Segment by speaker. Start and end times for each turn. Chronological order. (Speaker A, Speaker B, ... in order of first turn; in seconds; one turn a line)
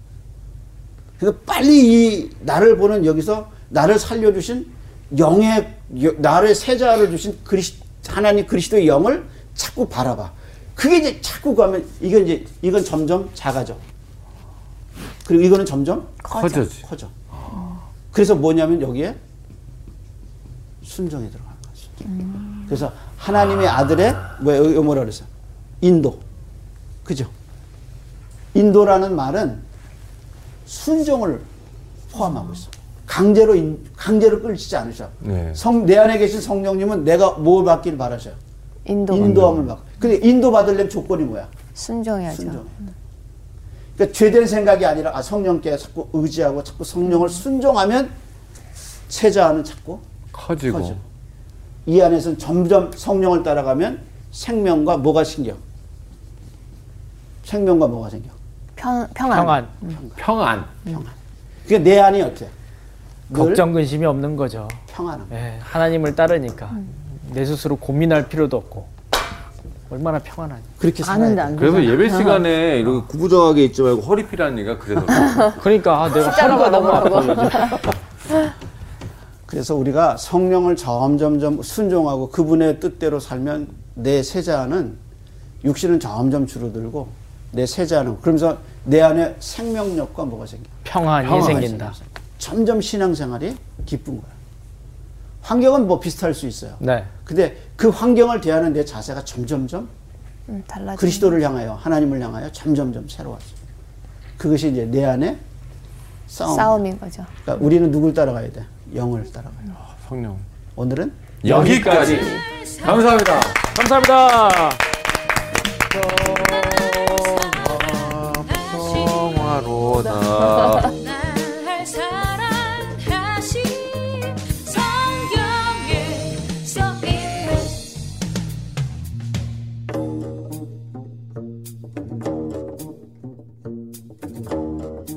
Speaker A: 1.2-13.8
Speaker A: 15.2-17.1
Speaker B: 16.2-17.7
Speaker A: 18.1-19.2
Speaker A: 20.8-22.1
Speaker C: 22.1-22.6
Speaker A: 22.6-25.3
Speaker A: 25.8-26.2
Speaker A: 27.0-27.3
Speaker A: 28.5-29.6
Speaker A: 30.6-31.5
Speaker A: 32.1-38.4
Speaker B: 35.2-35.6
Speaker C: 38.9-39.3
Speaker A: 39.1-41.5
Speaker B: 39.2-39.7
Speaker C: 41.8-42.6
Speaker A: 42.3-42.8
Speaker A: 44.0-48.1
Speaker A: 49.1-50.0
Speaker B: 50.3-51.0
Speaker A: 50.6-51.0
Speaker A: 51.9-55.6
Speaker A: 57.4-58.3
Speaker C: 58.8-59.9
Speaker D: 59.3-59.7
Speaker A: 59.8-60.2
Speaker B: 60.1-60.7
Speaker A: 60.8-61.1
Speaker A: 61.6-62.5
Speaker A: 63.3-63.7
Speaker D: 63.3-68.9
Speaker A: 64.9-65.3
Speaker D: 69.9-70.7
Speaker A: 70.8-72.0
Speaker C: 71.0-72.4
Speaker B: 71.5-75.6
Speaker D: 75.6-77.9
Speaker C: 76.2-77.7
Speaker A: 79.5-85.0
Speaker A: 85.6-94.3
Speaker D: 90.8-91.9
Speaker B: 91.2-91.7
Speaker A: 95.4-99.9
Speaker D: 96.8-97.1
Speaker C: 100.5-101.3
Speaker A: 100.9-103.5
Speaker A: 104.4-105.4
Speaker A: 106.3-106.9
Speaker C: 106.5-107.3
Speaker A: 107.4-109.7
Speaker B: 109.8-110.4
Speaker A: 110.8-111.7
Speaker B: 111.4-113.7
Speaker D: 111.5-112.4
Speaker C: 111.5-112.0
Speaker E: 112.1-113.1
Speaker D: 113.6-114.8
Speaker B: 115.9-120.9
Speaker E: 116.4-117.8
Speaker E: 118.4-119.4
Speaker E: 120.4-127.8